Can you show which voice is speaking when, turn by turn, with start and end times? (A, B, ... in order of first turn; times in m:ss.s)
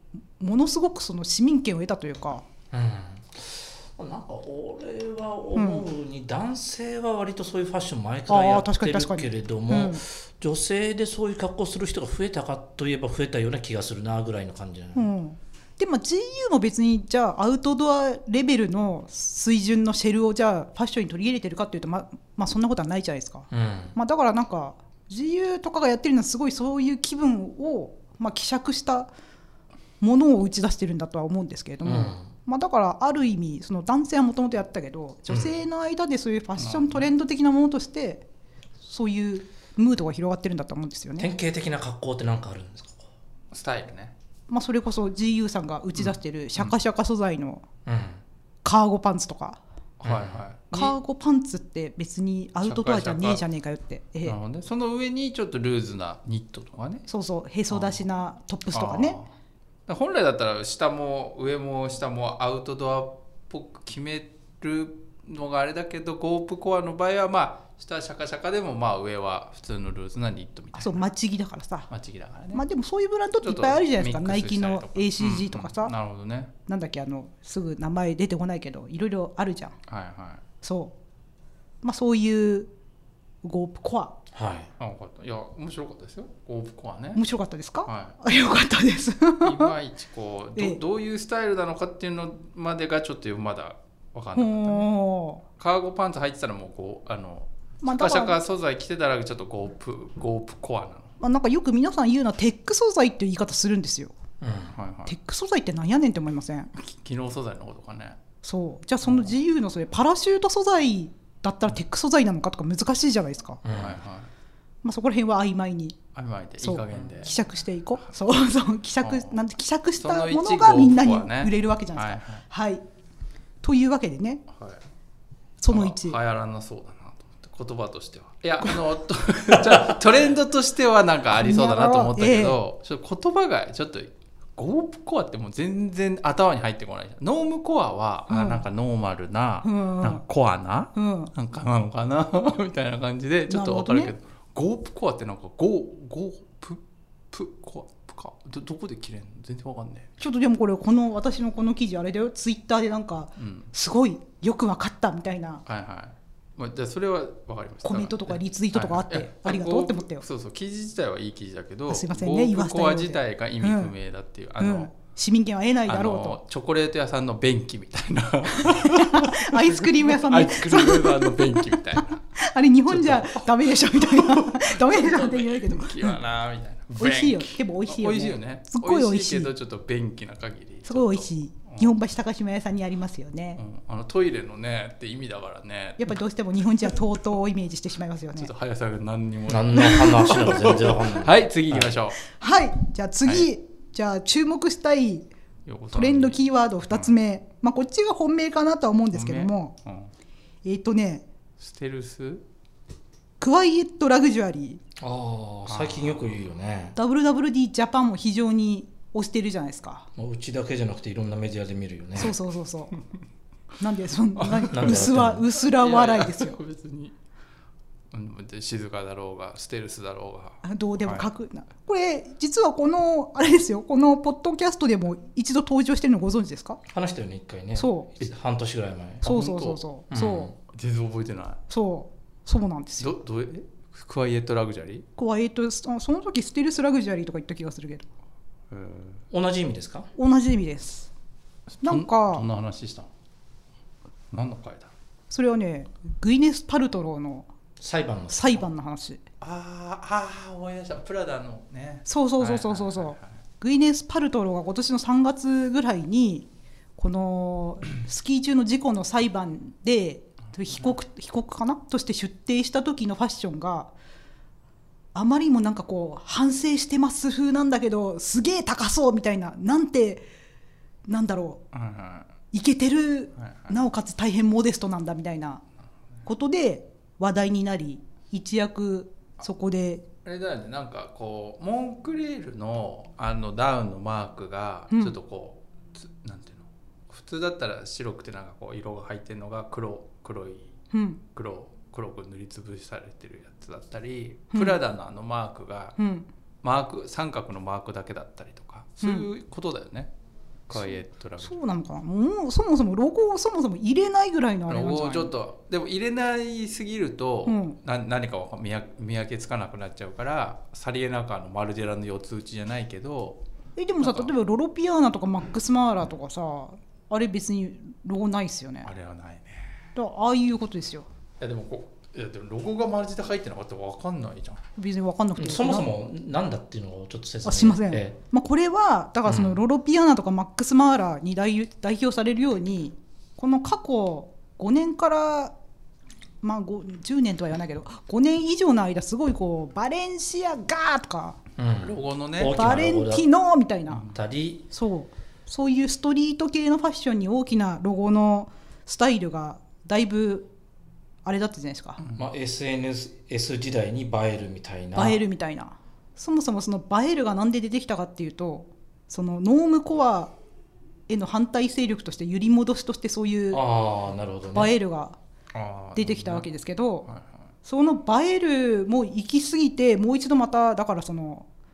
0:00.4-0:02.5 A
0:02.7-0:15.1 B
0:05.5-0:05.8 A
0:08.3-0:10.0 A
0:14.9-0:29.1 A
0:23.5-0:23.9 B
0:30.0-0:38.2 A
0:31.8-0:32.3 B
0:36.6-0:37.1 C
0:38.8-0:41.3 A
0:41.2-0:43.1 B
0:43.5-0:44.1 C
0:44.5-0:47.6 A
0:47.8-0:48.2 B
0:48.6-0:49.6 A
0:50.0-0:51.0 C
0:50.0-0:50.4 B
0:50.7-0:54.4 A
0:52.6-0:53.4 C
0:54.2-0:57.1 C
0:57.1-0:59.2 A
0:57.7-0:58.0 C
0:58.7-0:59.3 C
0:59.9-1:11.1 C
1:10.7-1:11.9 A
1:11.9-1:12.6 C
1:12.5-1:15.9 A
1:13.4-1:16.5 C
1:16.7-1:19.8 A
1:19.9-1:20.4 C
1:20.6-1:20.9 A
1:21.8-1:22.7 A
1:23.4-1:24.2 A
1:24.3-1:24.7 B
1:24.8-1:27.2 C
1:27.1-1:29.7 A
1:27.8-1:28.2 C
1:29.4-1:34.9 C
1:34.4-1:35.4 A
1:35.6-1:41.1 C
1:37.8-1:38.4 A
1:41.2-1:44.1 A
1:44.4-1:44.8 B
1:44.7-1:45.1 C
1:45.0-1:46.7 A
1:46.8-1:48.2 C
1:48.4-1:53.6 A
1:53.6-1:54.0 B
1:53.7-1:54.3 C
1:54.8-1:56.0 A
1:56.1-1:57.4 C
1:56.6-2:02.8 A
1:59.0-1:59.4 C
2:00.0-2:02.4 C
2:03.6-2:04.4 A
2:04.5-2:04.8 C
2:05.6-2:06.2 A
2:05.7-2:26.8 C
2:11.4-2:12.6 A
2:18.3-2:18.6 A
2:19.6-2:20.2 A
2:20.9-2:21.3 A
2:23.5-2:24.1 A
2:27.3-2:30.1 C
2:30.2-2:35.6 A
2:33.4-2:33.7 C
2:35.6-2:44.9 C
2:37.8-2:40.2 A
2:41.9-2:43.9 A
2:44.6-2:46.4 A
2:45.9-2:52.2 C
2:48.5-2:56.2 A
2:52.9-3:01.9 C
2:56.9-2:59.5 A
3:00.8-3:03.6 A
3:03.6-3:06.2 C
3:06.0-3:08.5 A
3:08.4-3:12.2 C
3:09.5-3:11.9 B
3:09.7-3:11.2 A
3:12.2-3:15.3 A
3:15.6-3:17.1 C
3:15.9-3:19.7 A
3:19.1-3:20.1 C
3:20.6-3:21.2 A
3:21.6-3:22.4 C
3:23.4-3:24.8 A
3:25.0-3:27.0 B
3:25.6-3:26.3 C
3:27.0-3:30.1 A
3:30.2-3:32.4 B
3:32.2-3:33.0 A
3:33.8-3:36.6 A
3:34.4-3:37.1 C
3:34.6-3:35.4 B
3:38.1-3:41.3 C
3:40.6-3:46.8 A
3:46.9-3:49.3 B
3:47.8-3:48.1 A
3:49.2-3:49.8 C
3:49.2-3:50.5 A
3:50.1-3:50.5 B
3:50.6-3:51.6 C
3:51.7-3:53.1 A
3:53.0-3:55.1 C
3:55.2-3:58.1 A
3:58.7-3:59.2 C
3:59.3-4:00.1 B
4:00.2-4:01.1 A
4:01.7-4:03.1 C
4:01.8-4:02.4 A
4:04.3-4:04.9 C
4:05.3-4:07.5 A
4:07.8-4:08.6 B
4:08.3-4:09.2 A
4:09.4-4:13.2 C
4:12.0-4:23.9 A
4:25.1-4:30.2 A
4:31.1-4:31.6 A
4:31.7-4:32.3 C
4:32.5-4:35.6 A
4:33.4-4:33.8 C
4:36.2-4:40.0 A
4:40.2-4:50.7 C
4:50.9-4:51.2 A
4:51.3-4:56.0 C
4:54.5-4:54.8 A
4:56.0-4:56.3 A
4:56.6-5:00.1 C
4:59.0-4:59.3 A
5:00.7-5:01.6 C
5:00.7-5:05.3 A
5:04.7-5:13.4 C
5:07.4-5:07.8 A
5:13.8-5:18.9 A
5:14.0-5:14.3 C
5:18.8-5:19.8 C
5:19.9-5:21.1 A
5:21.4-5:24.6 C
5:24.8-5:25.9 A
5:25.4-5:28.2 B
5:27.4-5:35.5 A
5:36.4-5:41.4 A
5:41.6-5:43.3 B
5:41.8-5:42.6 C
5:42.5-5:44.1 A
5:44.1-5:44.7 B
5:44.7-5:50.5 A
5:51.2-5:52.0 A
5:52.1-5:55.2 B
5:54.9-6:00.3 A
6:01.1-6:03.6 A
6:03.5-6:04.7 B
6:04.5-6:05.2 A
6:05.5-6:06.5 C
6:06.0-6:07.1 A
6:07.0-6:07.4 C
6:07.6-6:11.5 A